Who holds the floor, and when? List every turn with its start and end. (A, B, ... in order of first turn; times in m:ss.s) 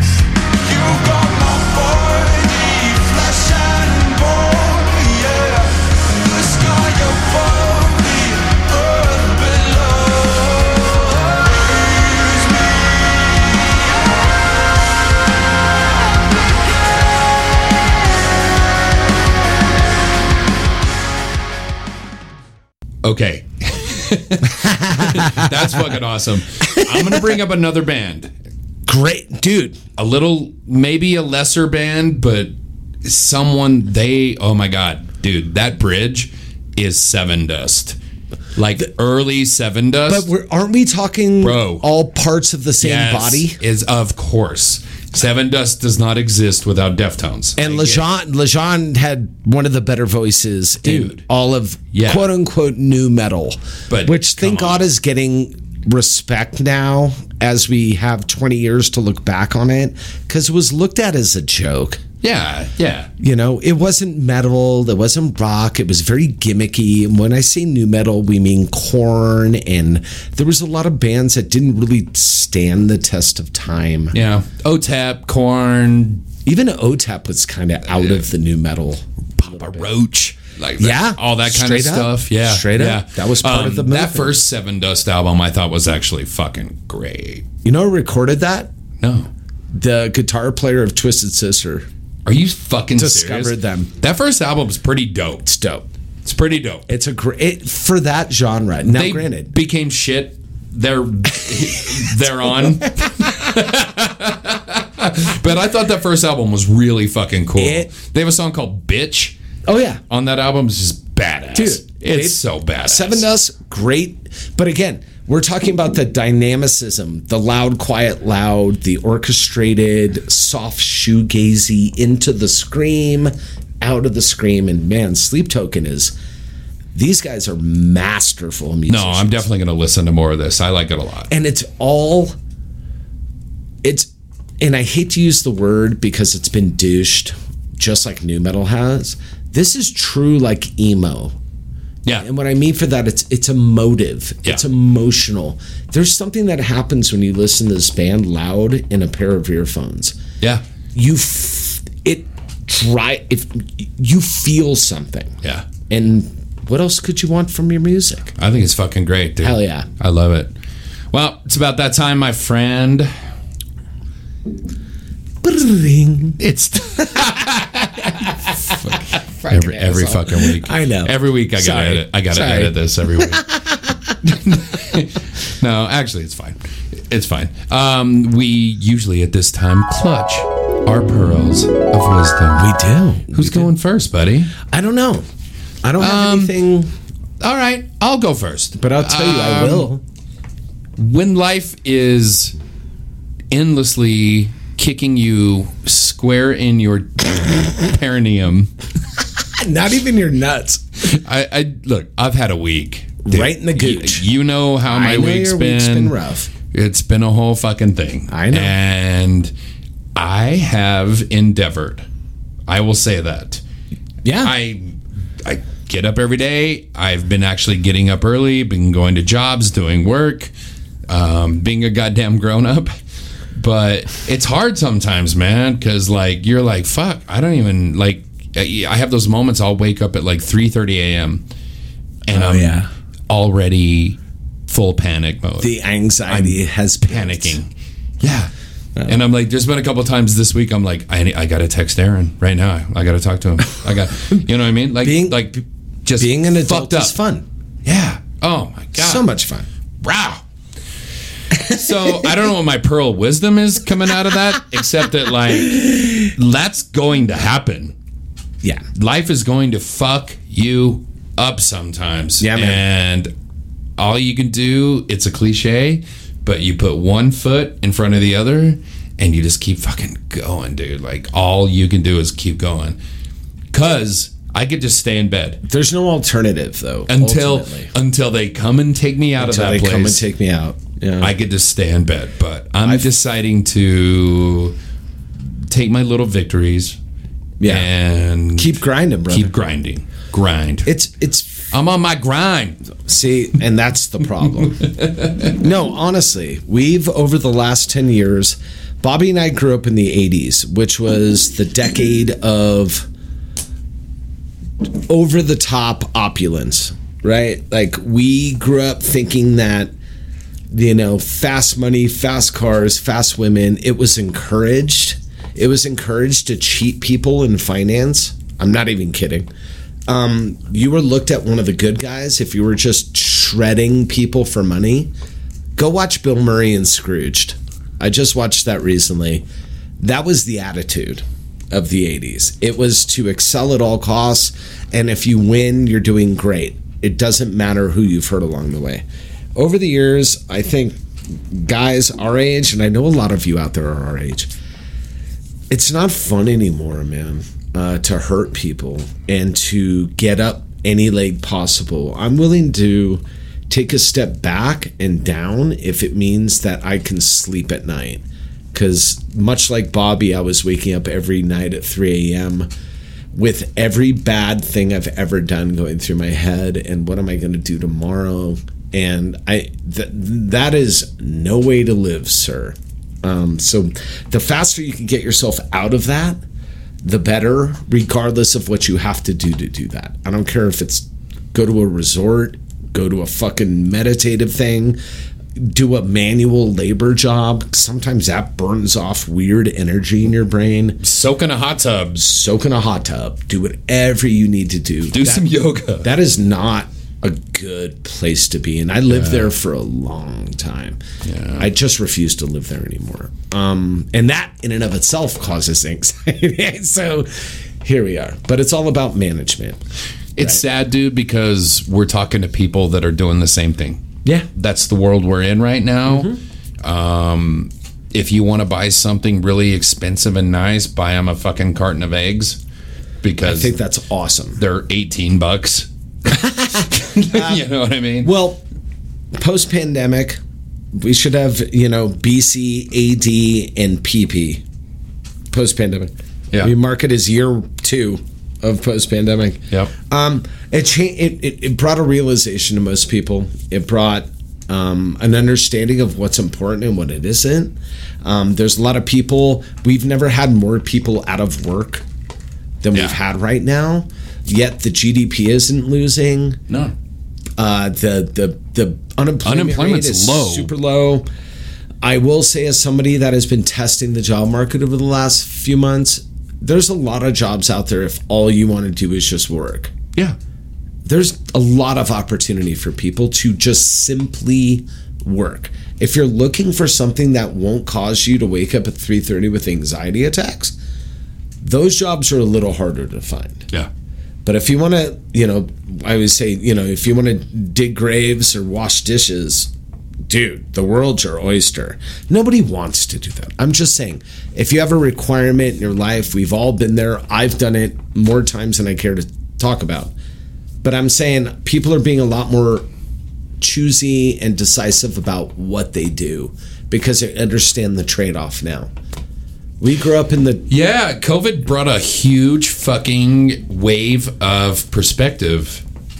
0:00.6-0:13.3 A
0:23.0-0:28.3 B
0:24.5-0:25.5 C
0:26.6-0:27.4 C
0:28.8-0:29.8 C
0:30.0-0:32.5 B
0:33.0-0:38.0 B
0:38.6-0:40.3 B
0:40.0-0:43.6 C
0:41.4-0:41.8 B
0:42.8-0:48.0 B
0:47.6-1:02.0 C
0:50.8-0:51.2 B
0:51.9-0:52.3 B
0:53.9-0:54.9 B
1:02.2-1:03.1 B
1:03.2-1:14.2 C
1:14.1-1:16.2 B
1:16.4-1:19.9 C
1:17.9-1:18.2 B
1:19.4-1:27.4 B
1:20.8-1:24.4 C
1:27.6-1:28.7 C
1:29.0-1:29.3 B
1:29.7-1:31.9 C
1:32.2-1:35.5 B
1:32.9-1:33.9 C
1:35.4-1:35.8 C
1:36.2-1:36.8 B
1:36.9-1:39.5 C
1:38.8-1:49.3 B
1:47.6-1:47.9 C
1:49.6-1:50.0 C
1:50.1-1:53.2 B
1:51.5-2:06.1 C
2:06.9-2:09.5 C
2:08.9-2:11.3 B
2:11.3-2:12.4 C
2:13.8-2:14.1 C
2:14.6-2:21.4 C
2:22.2-2:30.2 C
2:30.9-2:35.3 C
2:35.9-2:38.3 C
2:38.4-2:40.5 B
2:39.4-2:39.9 C
2:41.1-2:43.1 B
2:45.4-2:46.4 C
2:46.4-2:53.4 B
2:49.1-2:54.1 C
2:54.2-3:02.7 B
3:02.5-3:03.7 C
3:03.3-3:04.5 B
3:04.6-3:05.2 C
3:05.8-3:06.9 C
3:06.0-3:06.5 B
3:07.4-3:09.9 B
3:08.8-3:10.0 C
3:11.0-3:12.5 B
3:13.5-3:18.7 B
3:19.4-3:20.8 C
3:21.0-3:26.2 B
3:23.2-3:24.3 C
3:24.8-3:26.5 C
3:26.7-3:29.5 B
3:28.3-3:28.7 C
3:30.2-3:32.0 B
3:32.7-3:33.6 B
3:34.2-3:34.5 C
3:34.4-3:40.5 B
3:41.1-3:43.0 B
3:43.5-3:51.4 B
3:52.3-3:54.2 B
3:52.3-3:52.9 C
3:54.7-3:55.7 B
3:55.6-3:57.6 C
3:56.3-3:58.5 B
3:59.0-3:59.2 C
3:59.0-4:07.2 B
4:05.0-4:05.6 C
4:06.2-4:07.4 C
4:07.8-4:09.2 B
4:08.9-4:09.7 C
4:10.0-4:10.4 B
4:11.6-4:17.9 B
4:11.7-4:12.1 C
4:18.9-4:23.3 B
4:22.4-4:22.8 C
4:24.0-4:33.0 B
4:33.7-4:35.6 B
4:35.6-4:37.9 C
4:37.1-4:40.2 B
4:39.4-4:41.3 C
4:41.2-4:44.7 B
4:42.8-4:43.1 C
4:45.6-4:47.0 B
4:47.6-4:47.9 C
4:47.6-4:48.7 B
4:48.5-4:49.6 C
4:49.3-4:50.9 B
4:50.8-4:51.7 C
4:51.7-4:52.8 B
4:53.0-4:54.8 C
4:54.7-4:55.5 B
4:55.5-5:03.1 C
5:04.8-5:09.9 C
5:10.7-5:19.5 C
5:20.1-5:25.1 C
5:25.8-5:29.4 C
5:30.0-5:39.0 C
5:39.6-5:44.5 C
5:45.7-6:02.7 C
6:03.3-6:16.4 C
6:17.0-6:25.0 C
6:25.6-6:31.0 C
6:31.0-6:32.2 B
6:32.2-6:35.5 C
6:35.1-6:36.1 B
6:36.0-6:41.0 C
6:39.1-6:39.5 B
6:41.2-6:41.7 B
6:41.6-6:49.8 C
6:50.4-6:56.3 B
6:50.4-6:50.6 C
6:54.2-6:54.5 C
6:56.0-6:56.4 C
6:56.8-7:02.6 B
7:03.2-7:03.8 B
7:03.4-7:04.6 C
7:04.6-7:08.3 B
7:06.3-7:08.6 C
7:09.3-7:10.4 C
7:10.9-7:14.6 C
7:15.5-7:32.0 C
7:32.8-7:36.6 C
7:36.7-7:36.9 B
7:37.6-7:41.3 C
7:39.4-7:40.7 B
7:42.0-7:49.9 C
7:51.0-8:00.7 C
8:01.6-8:03.7 C
8:04.4-8:09.7 C
8:10.2-8:20.1 C
8:20.8-8:22.9 C
8:23.6-8:28.9 C
8:29.8-8:30.7 C
8:30.7-8:35.8 B